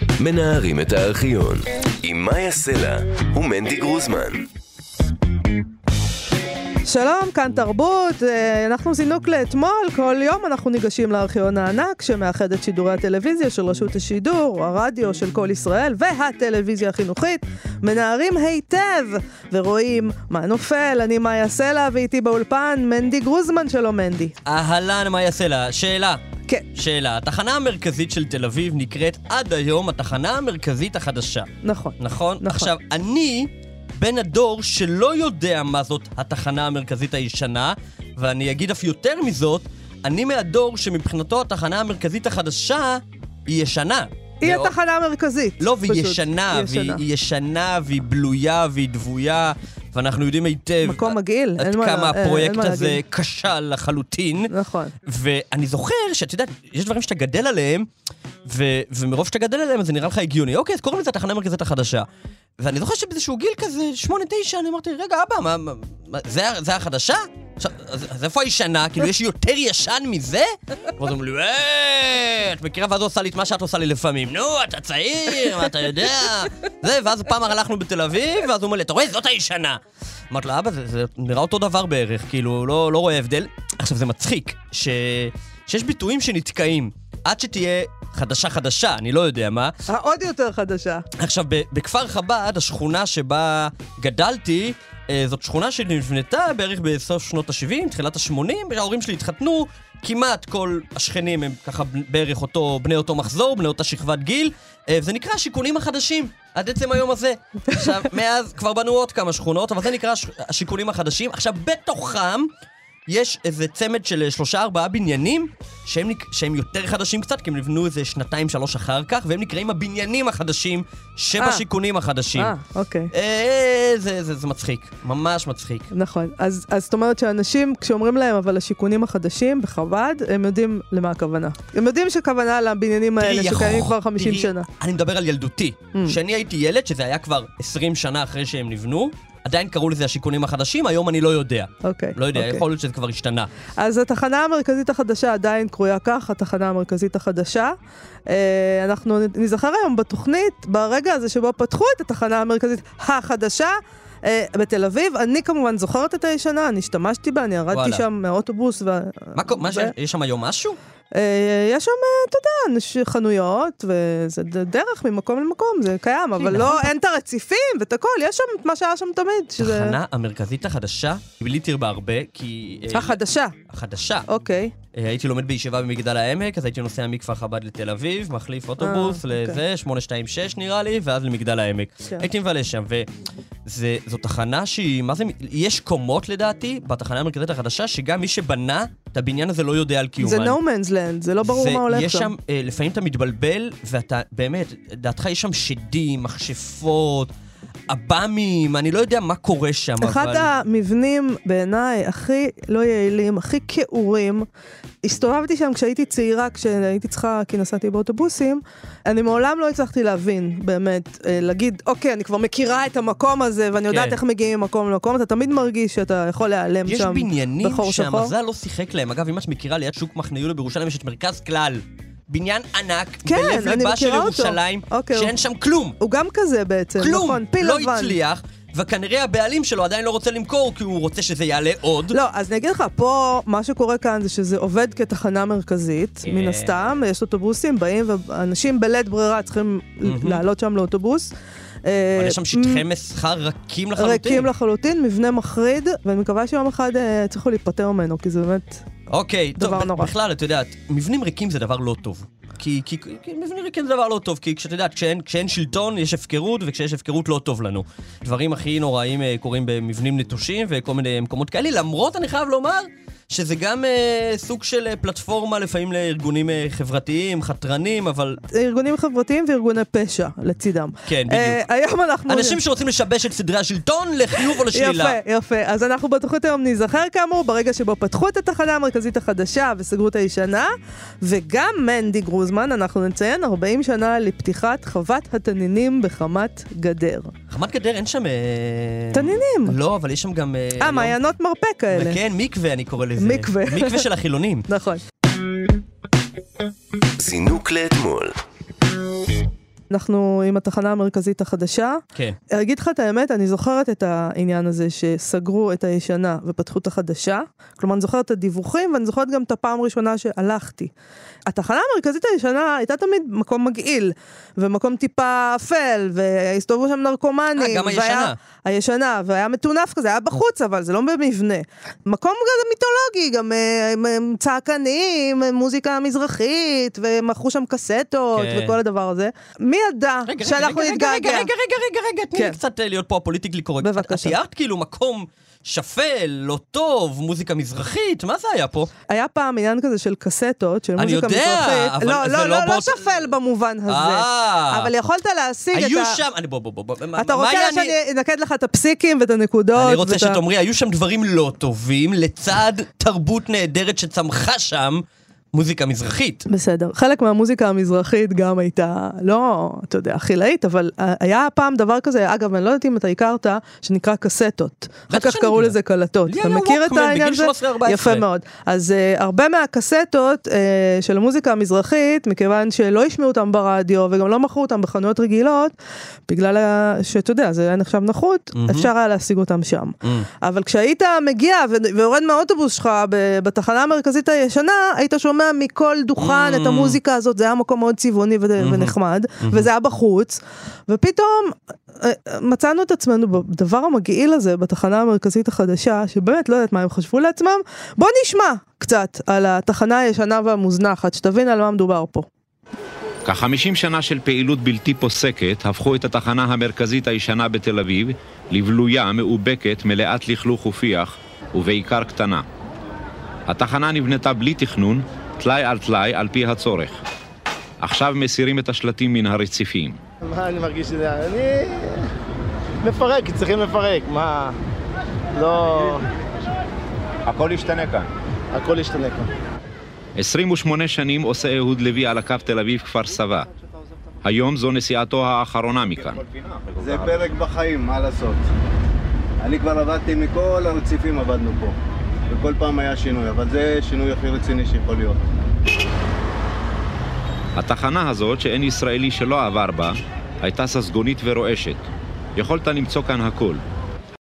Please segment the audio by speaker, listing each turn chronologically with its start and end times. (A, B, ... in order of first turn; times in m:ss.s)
0:00.2-0:04.4 A
0:06.9-0:24.4 B
0:24.5-0:26.2 C
0:26.8-0:44.7 C
0:31.6-0:32.7 B
0:44.4-0:47.0 B
0:45.6-0:54.5 C
0:50.8-0:53.0 B
0:54.5-0:55.0 B
0:55.1-0:57.9 C
0:58.5-1:02.1 C
1:02.6-1:19.8 C
1:20.3-1:29.8 C
1:29.9-1:31.0 B
1:31.2-1:52.5 C
1:53.1-2:02.5 C
2:02.4-2:03.1 B
2:03.1-2:05.9 C
2:05.9-2:14.7 B
2:13.2-2:23.5 C
2:21.8-2:22.6 B
2:23.8-2:27.8 B
2:28.3-2:39.9 B
2:37.7-2:38.0 C
2:39.4-2:40.8 C
2:41.1-2:50.0 B
2:46.4-2:46.9 C
2:49.6-2:53.2 C
2:52.9-2:53.6 B
2:53.7-2:54.3 C
2:54.3-2:54.7 B
2:54.9-3:03.1 C
2:58.8-2:59.6 B
3:03.7-3:10.6 C
3:10.2-3:12.3 B
3:11.4-3:17.3 C
3:17.9-3:20.5 C
3:20.0-3:24.5 B
3:25.0-3:38.3 B
3:33.9-3:34.2 C
3:36.9-3:46.0 C
3:43.3-3:45.3 B
3:46.0-3:48.2 B
3:47.0-3:52.2 C
3:52.1-4:01.3 B
3:56.3-3:56.8 C
4:00.0-4:00.4 C
4:01.8-4:02.8 B
4:02.2-4:04.5 C
4:04.0-4:08.9 B
4:09.1-4:28.4 C
4:09.6-4:10.1 B
4:28.5-4:32.6 B
4:31.1-4:31.6 C
4:32.3-4:35.2 C
4:34.7-4:47.3 B
4:47.5-4:51.2 C
4:49.1-4:49.8 B
4:50.8-4:52.2 B
4:51.9-4:54.7 C
4:53.2-4:54.1 B
4:54.7-4:55.0 B
4:57.2-4:58.4 A
4:59.9-5:10.9 B
5:11.5-5:31.5 B
5:17.6-5:18.4 C
5:28.4-5:28.8 C
5:30.3-5:38.9 C
5:33.8-5:34.4 B
5:39.1-5:46.2 B
5:41.0-5:43.2 C
5:43.9-5:44.9 C
5:45.7-5:48.0 C
5:47.2-5:50.4 B
5:49.8-5:56.4 C
5:56.5-6:15.7 B
6:05.1-6:05.8 C
6:06.3-6:08.2 C
6:16.3-6:42.3 B
6:18.6-6:18.9 C
6:26.2-6:27.0 C
6:28.6-6:29.7 C
6:43.2-6:52.4 D
6:53.5-6:57.0 D
6:57.8-7:00.0 D
7:00.2-7:02.0 E
7:02.8-7:04.6 E
7:05.4-7:06.0 E
7:07.2-7:08.1 D
7:08.5-7:09.3 E
7:10.2-7:13.5 D
7:14.2-7:17.3 D
7:16.8-7:18.5 F
7:19.4-7:21.7 F
7:22.3-7:25.3 F
7:27.6-7:31.8 D
7:32.4-7:33.6 D